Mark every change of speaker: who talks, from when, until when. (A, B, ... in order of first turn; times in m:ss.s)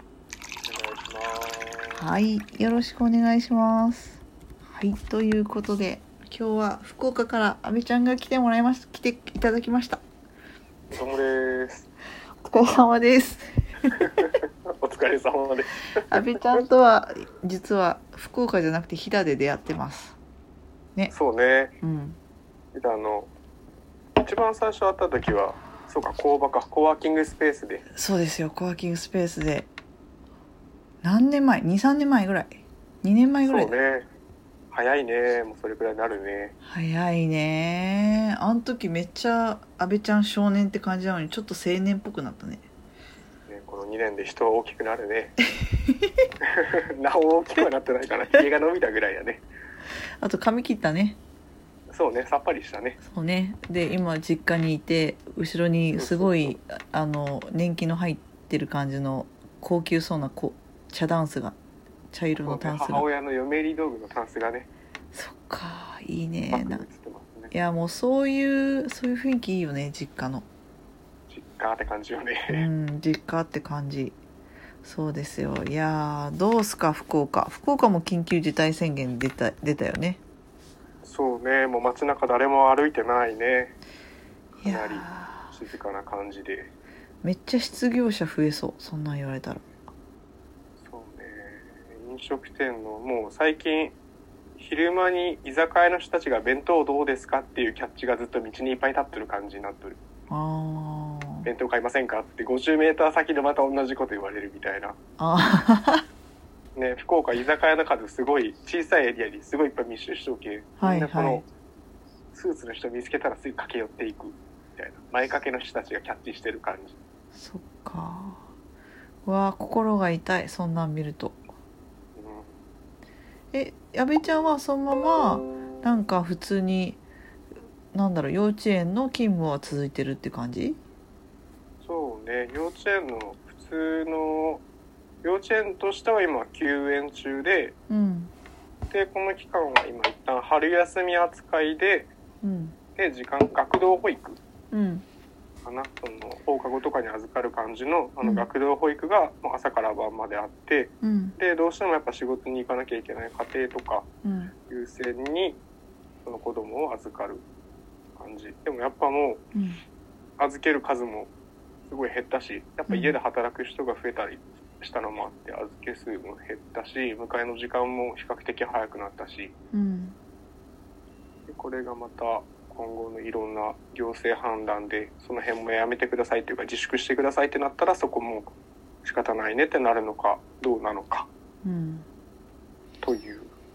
0:00.6-0:02.1 A
0:02.0-0:10.0 B
0:10.9-0:11.9 A
0:12.4-0:13.9 B
0:14.0-0:16.6 A
0:16.1-0:20.2 B
0:21.1-0:21.8 A
0:21.8-0:22.2 B
0:22.7-0:23.3 A
0:24.2-0:27.9 A
0:27.9-0:29.7 B
0:31.0-0:33.7 B
0:33.4-0:34.1 A
0:34.7-0:36.6 A
0:36.6-0:42.6 B
0:43.5-0:45.4 A
0:45.8-0:46.1 B
0:46.4-0:49.4 A
0:50.2-0:51.2 B
0:51.9-0:53.0 A
0:53.0-1:01.6 B
0:56.0-0:56.6 A
1:02.1-1:03.1 B
1:02.4-1:04.7 A
1:05.1-1:06.8 B
1:06.5-1:07.5 A
1:07.5-1:10.5 B
1:11.3-1:12.7 A
1:12.5-1:14.2 B
1:14.8-1:20.2 B
1:21.0-1:23.8 A
1:24.6-1:25.5 B
1:24.6-1:26.7 A
1:27.2-1:29.7 B
1:30.8-1:34.0 A
1:34.6-1:40.0 A
1:40.3-1:41.5 B
1:41.4-1:45.0 A
1:45.2-1:46.0 B
1:46.8-1:51.5 A
1:50.8-1:51.4 B
1:52.3-1:57.0 A
1:57.3-1:58.4 B
1:59.2-2:01.4 B
2:02.2-2:02.6 A
2:03.5-2:07.0 B
2:07.9-2:10.8 B
2:11.8-2:14.6 A
2:15.2-2:17.8 A
2:17.9-2:18.3 B
2:18.9-2:22.1 A
2:22.4-2:22.8 B
2:23.0-2:24.4 A
2:24.7-2:25.0 B
2:25.6-2:34.1 A
2:31.0-2:31.4 B
2:34.2-2:34.5 B
2:34.7-2:35.6 A
2:36.2-2:37.4 A
2:38.2-2:39.4 A
2:39.6-2:39.8 B
2:40.4-2:41.3 A
2:41.9-2:49.5 A
2:42.9-2:43.2 B
2:49.7-2:50.2 B
2:51.5-2:58.5 A
2:59.0-3:01.3 A
3:01.6-3:02.1 B
3:03.0-3:03.5 A